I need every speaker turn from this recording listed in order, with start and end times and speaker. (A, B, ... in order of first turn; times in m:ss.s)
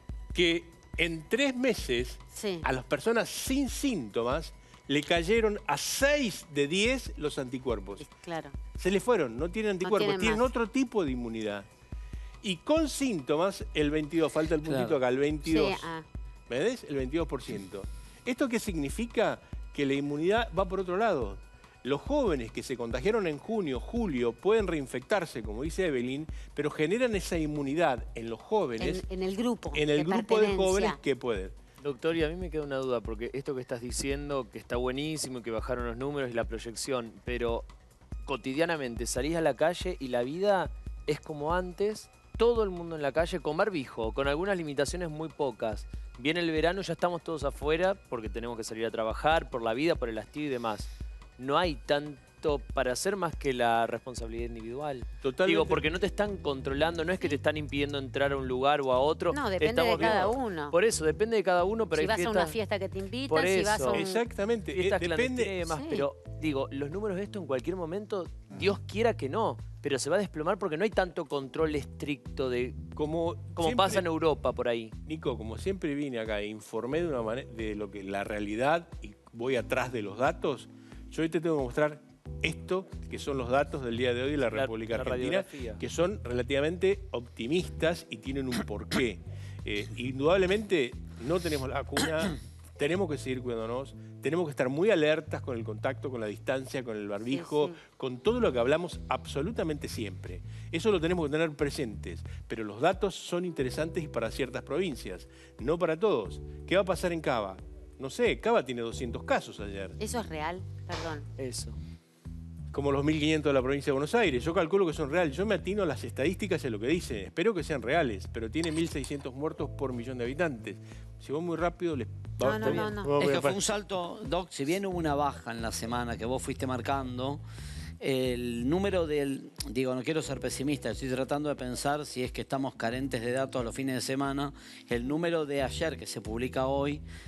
0:00.3-0:08.0 A
0:02.3-0:02.6 B
0:08.0-0:08.6 B
0:08.8-0:11.7 A
0:09.8-0:10.5 B
0:12.4-0:15.9 A
0:14.6-0:15.0 C
0:15.4-0:16.0 B
0:16.5-0:29.0 A
0:28.8-0:31.0 B
0:29.7-0:31.6 A
0:31.8-0:37.7 D
0:38.2-1:02.6 D
0:55.2-0:55.8 A
0:59.3-1:00.8 B
1:01.9-1:04.1 B
1:03.3-1:12.9 D
1:03.9-1:05.6 A
1:05.7-1:06.0 B
1:12.9-1:14.1 A
1:13.5-1:14.9 D
1:15.0-1:50.0 A
1:24.5-1:25.8 D
1:37.3-1:37.8 B
1:50.0-1:51.3 B
1:51.4-1:51.8 D
1:52.7-2:03.6 A
2:02.4-2:03.1 B
2:03.2-2:07.4 C
2:08.0-2:17.0 C